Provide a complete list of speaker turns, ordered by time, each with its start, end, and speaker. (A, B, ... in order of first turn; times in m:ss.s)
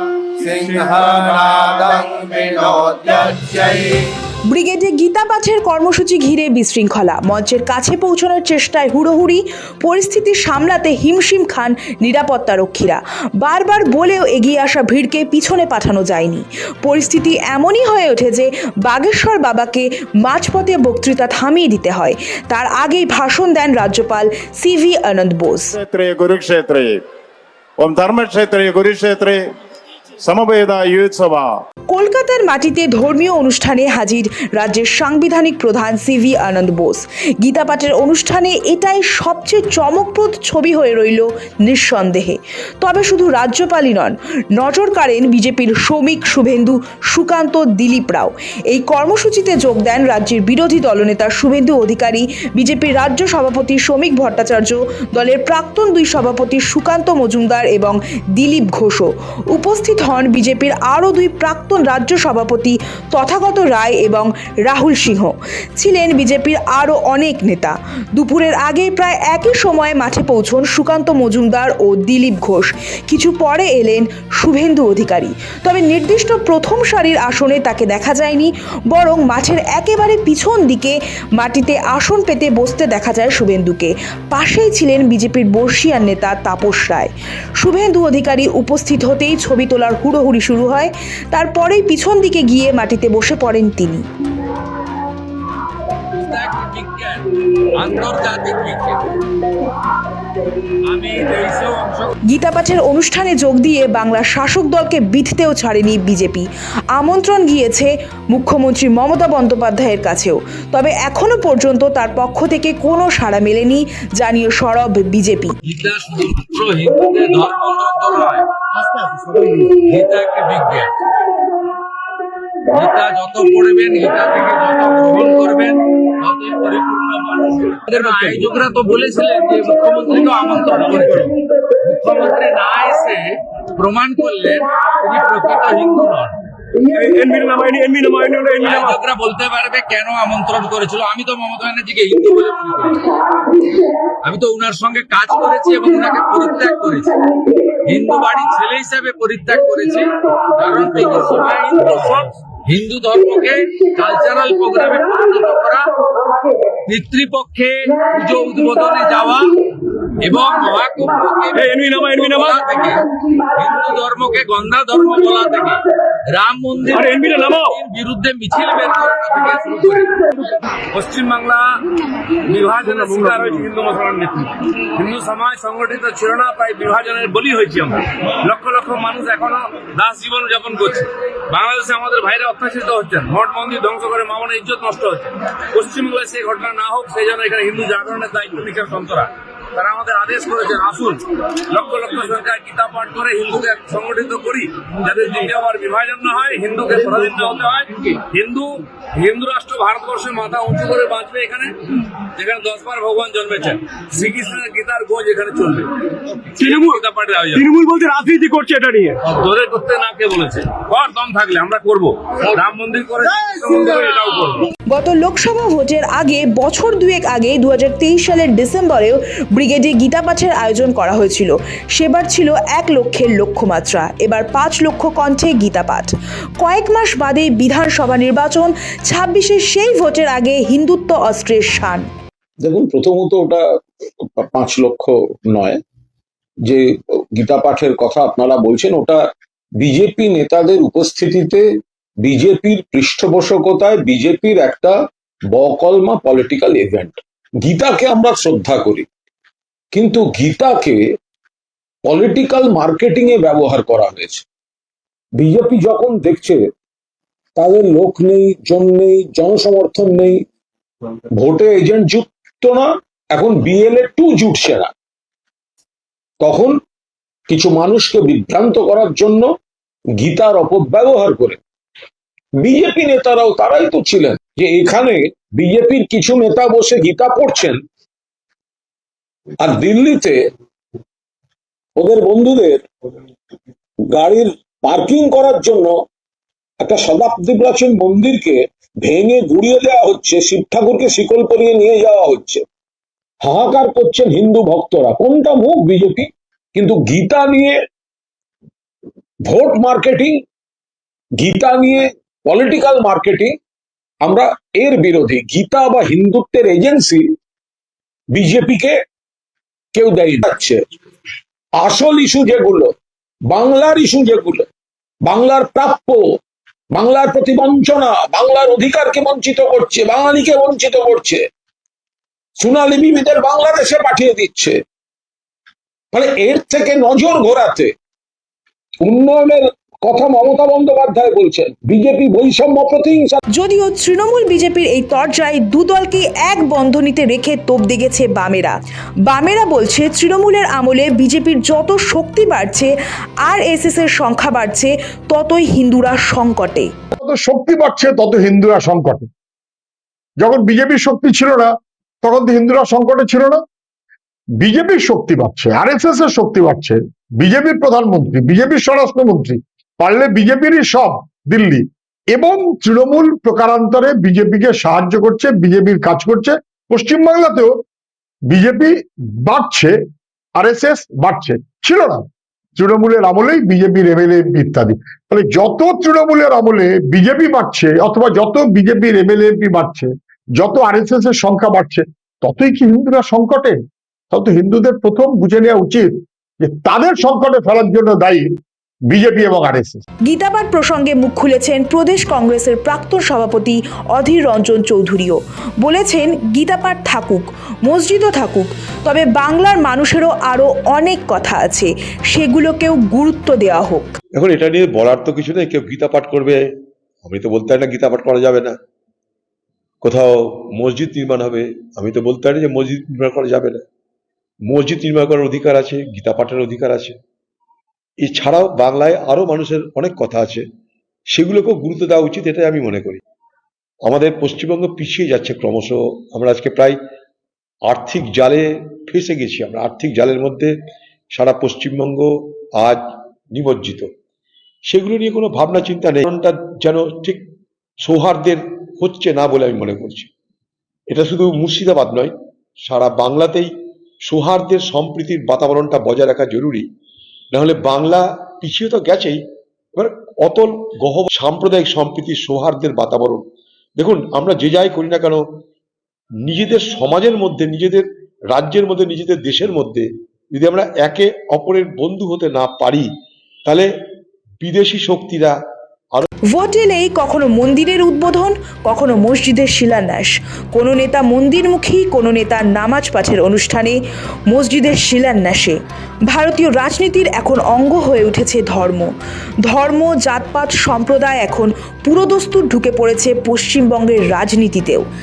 0:00.5-0:04.0 A
0:04.5-0:25.7 B
0:25.7-0:27.0 C
0:27.8-0:29.5 C
0:30.2-0:31.6 C
0:31.9-1:34.0 B
1:36.1-1:37.3 D
1:37.8-1:39.2 D
1:40.9-1:42.1 D
1:42.3-1:55.6 B
1:55.7-1:58.5 D
1:59.8-2:00.9 D
2:02.7-2:16.4 D
2:08.0-2:08.4 E
2:16.9-2:19.0 E
2:18.6-2:23.1 D
2:24.2-2:27.2 D
2:27.7-2:35.9 D
2:36.9-2:39.6 D
2:40.2-2:50.1 D
2:41.5-2:42.8 E
2:46.9-2:47.8 E
2:50.9-2:51.7 F
2:52.4-3:25.9 F
3:26.6-3:27.0 E
3:26.6-3:27.7 F
3:27.6-3:29.2 E
3:29.2-3:34.7 F
3:34.9-3:52.1 B
3:52.6-3:53.6 G
3:54.2-3:55.8 G
3:56.6-3:59.2 G
3:59.8-4:01.6 G
4:02.2-4:05.0 G
4:05.5-4:09.1 G
4:09.9-4:11.0 G
4:12.1-4:14.4 G
4:15.4-4:16.6 G
4:17.6-4:20.4 G
4:21.3-4:24.9 G
4:26.4-4:26.8 G
4:27.5-4:29.5 G
4:30.2-4:31.6 G
4:32.6-4:37.8 G
4:39.6-4:40.4 G
4:42.0-4:42.8 G
4:44.1-4:45.9 G
4:46.8-4:52.6 G
4:53.4-4:57.8 G
4:59.5-5:00.4 G
5:01.4-5:03.5 G
5:04.2-5:07.2 G
5:08.3-5:09.0 G
5:09.9-5:10.8 G
5:11.8-5:12.9 G
5:13.5-5:14.7 G
5:15.2-5:16.2 G
5:16.9-5:21.4 G
5:22.6-5:24.8 G
5:26.1-5:27.9 G
5:29.0-5:33.4 G
5:33.5-5:42.9 B
5:43.4-5:46.9 B
5:47.2-5:49.3 H
5:50.4-5:51.7 H
5:52.2-5:53.6 H
5:54.6-6:07.7 H
6:08.5-6:10.0 H
6:10.6-6:12.2 H
6:12.8-6:23.8 H
6:24.3-6:28.5 H
6:29.1-6:30.0 H
6:30.3-6:44.1 B
6:44.3-6:46.6 I
6:47.2-6:48.8 I
6:50.0-6:53.8 I
6:54.7-6:57.2 I
6:58.2-7:00.6 I
7:01.3-7:03.2 I
7:04.0-7:07.0 I
7:07.9-7:10.7 I
7:11.3-7:14.1 I
7:14.9-7:17.4 I
7:18.0-7:20.3 I
7:21.1-7:23.7 I
7:24.2-7:26.9 I
7:27.5-7:29.4 I
7:30.0-7:33.4 I
7:34.0-7:35.4 I
7:36.4-7:43.1 I
7:44.6-7:45.6 I
7:46.5-7:54.0 B
7:54.5-7:55.8 B
7:56.3-7:59.1 B
7:59.6-8:05.1 B